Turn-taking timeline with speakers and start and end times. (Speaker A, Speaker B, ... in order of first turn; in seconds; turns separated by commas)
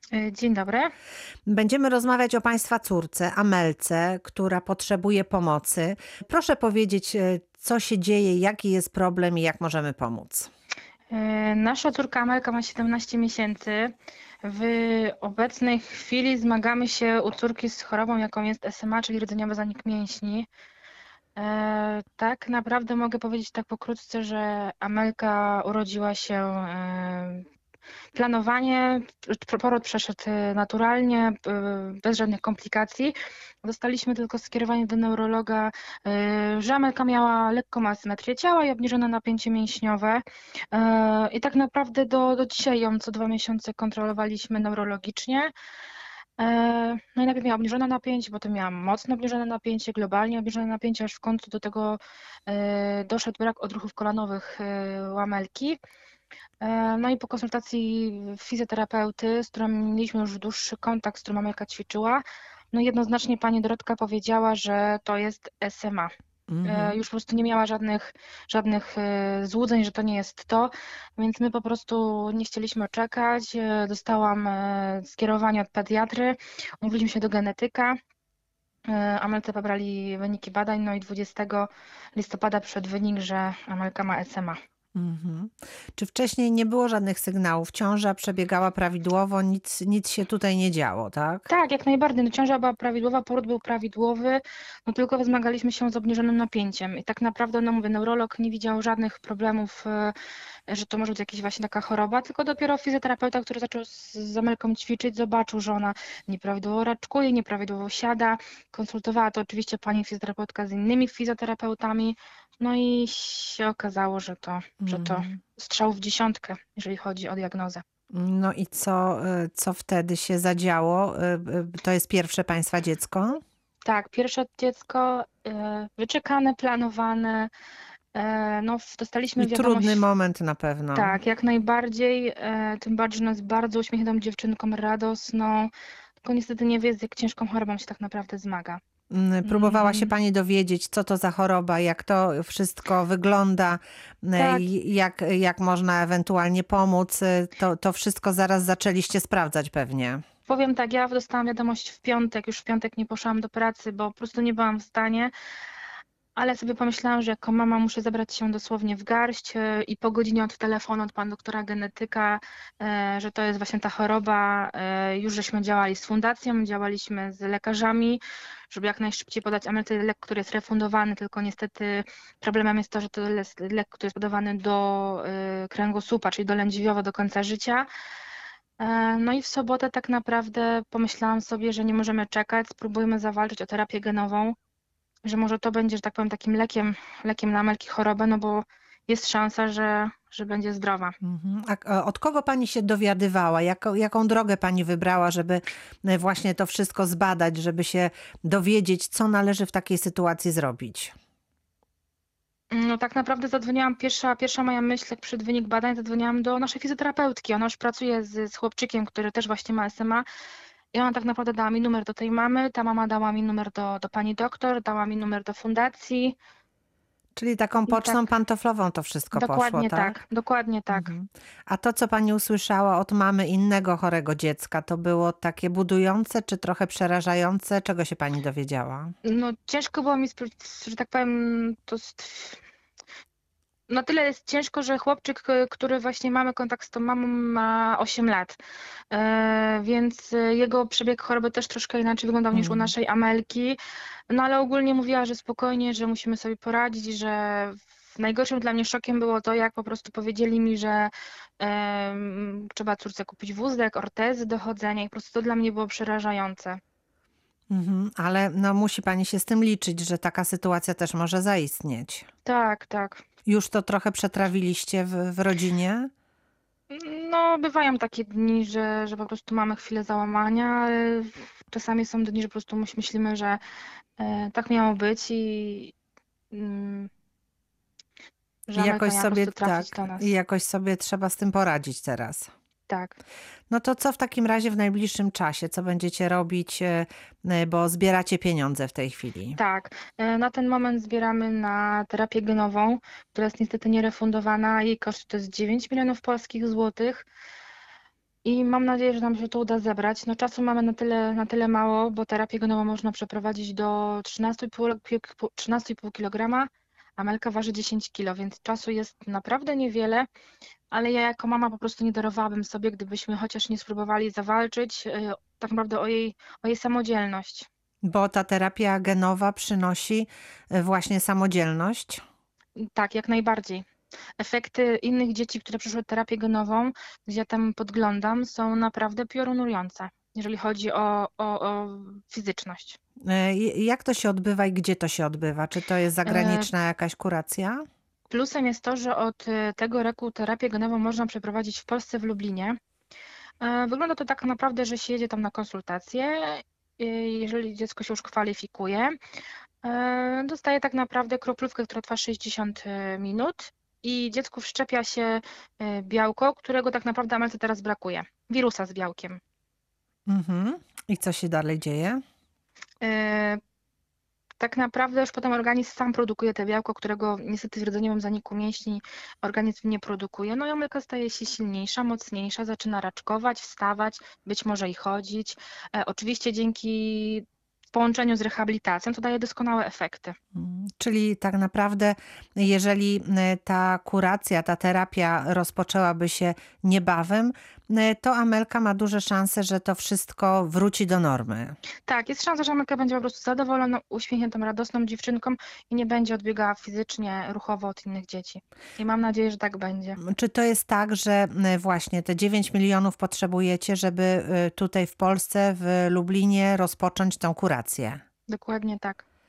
Speaker A: 0.1-0.9, Speaker B: 1.5-10.5, Speaker A: 11.1-20.5, Speaker A: 21.4-27.5, Speaker A: 28.1-45.5, Speaker A: 46.4-55.8, Speaker A: 56.6-66.1, Speaker B: 66.5-67.0, Speaker A: 66.6-78.0, Speaker A: 78.9-84.6, Speaker B: 85.0-91.5, Speaker A: 91.5-100.1, Speaker A: 100.7-117.8, Speaker B: 114.8-115.4, Speaker B: 118.1-123.4, Speaker A: 123.8-127.5, Speaker A: 128.2-130.0, Speaker B: 129.4-131.2, Speaker A: 130.9-135.7, Speaker A: 136.2-138.8, Speaker B: 139.1-150.2, Speaker A: 139.4-140.1, Speaker A: 144.4-144.7, Speaker A: 150.5-155.3, Speaker A: 156.4-168.2, Speaker A: 168.7-177.9, Speaker A: 178.8-184.6, Speaker A: 185.2-191.2, Speaker B: 191.2-201.1, Speaker A: 202.7-210.2, Speaker A: 210.9-216.4, Speaker B: 217.4-220.2, Speaker A: 217.9-218.2, Speaker A: 219.3-221.1, Speaker B: 220.9-229.1, Speaker A: 229.2-232.6, Speaker A: 233.9-238.6, Speaker A: 239.1-243.8, Speaker B: 242.5-242.9, Speaker A: 244.3-256.8, Speaker B: 257.7-262.3, Speaker A: 262.4-263.2, Speaker B: 263.5-266.1, Speaker A: 266.9-273.6, Speaker A: 274.2-275.9, Speaker A: 276.5-277.1, Speaker A: 278.7-280.3, Speaker B: 278.8-282.5, Speaker A: 282.9-283.2, Speaker B: 283.7-289.6, Speaker A: 289.6-297.3, Speaker A: 298.4-310.3, Speaker A: 310.9-317.7, Speaker B: 318.1-322.2, Speaker A: 322.8-323.8, Speaker A: 324.4-333.0, Speaker B: 333.3-337.8, Speaker A: 336.2-336.7, Speaker A: 338.3-342.8, Speaker A: 343.6-349.2, Speaker A: 349.8-359.4, Speaker B: 360.3-362.2, Speaker A: 363.0-363.6, Speaker A: 364.6-380.4, Speaker B: 380.6-391.7, Speaker A: 392.1-400.2, Speaker B: 400.2-408.2, Speaker A: 408.5-409.2